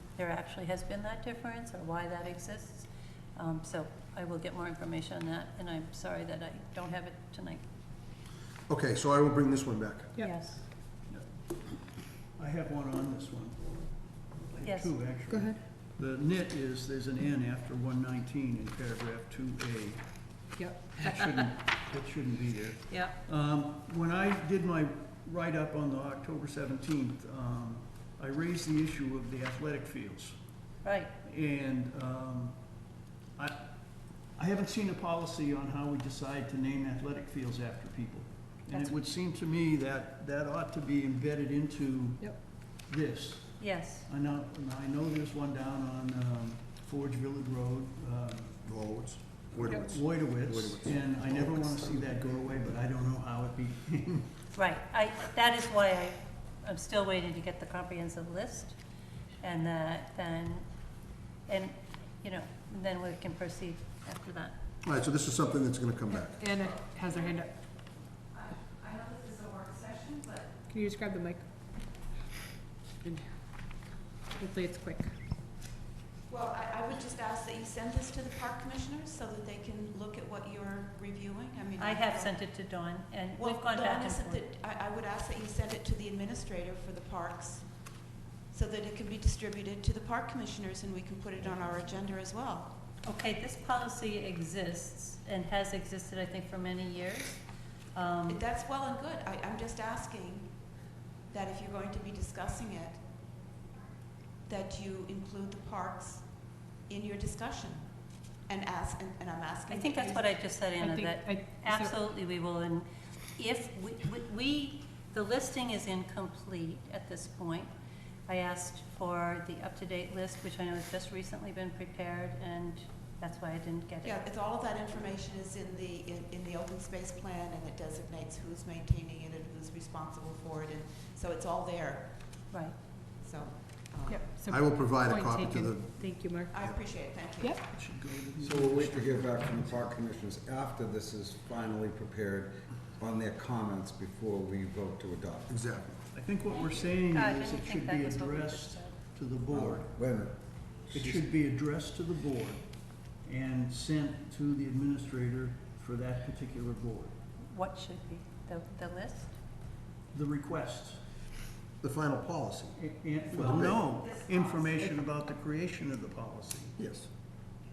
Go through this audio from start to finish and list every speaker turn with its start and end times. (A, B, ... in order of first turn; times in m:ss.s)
0:00.2-0:07.6 A
0:08.7-0:10.1 B
0:10.2-0:10.5 C
0:10.2-0:10.6 A
0:12.3-0:30.4 D
0:14.6-0:14.9 A
0:15.3-0:15.6 C
0:20.6-0:21.0 C
0:22.9-0:23.2 A
0:30.8-0:31.1 A
0:31.2-0:32.6 D
0:34.3-0:48.6 D
0:38.7-0:38.9 A
0:43.6-0:44.1 A
0:48.6-0:52.4 B
0:49.6-0:49.9 C
0:49.7-0:54.3 D
0:54.5-0:58.8 A
0:59.4-1:00.6 A
1:01.5-1:04.6 A
1:04.8-1:06.4 B
1:06.1-1:07.5 C
1:08.3-1:10.6 E
1:10.7-1:12.1 C
1:13.0-1:13.3 C
1:14.3-1:15.1 C
1:16.3-1:22.3 E
1:21.8-1:24.4 A
1:23.4-1:32.8 E
1:33.0-1:37.4 A
1:37.9-1:38.4 A
1:38.3-1:40.7 E
1:41.3-1:43.0 E
1:44.4-1:50.4 E
1:49.7-1:57.7 A
1:50.8-1:51.9 C
1:58.3-2:04.2 A
2:04.0-2:12.5 E
2:12.5-2:12.8 A
2:13.2-2:14.4 E
2:14.0-2:16.6 C
2:14.4-2:16.8 B
2:16.5-2:17.6 E
2:17.6-2:19.9 D
2:18.4-2:25.5 F
2:25.5-2:26.0 B
2:26.1-2:29.9 D
2:26.9-2:28.9 A
2:29.5-2:30.4 F
2:30.9-2:37.1 D
2:30.9-2:31.2 B
2:37.4-2:39.4 A
2:40.1-2:41.0 D
2:41.8-2:42.8 B
2:42.8-2:46.8 D
2:43.3-2:43.8 B
2:46.8-2:47.1 B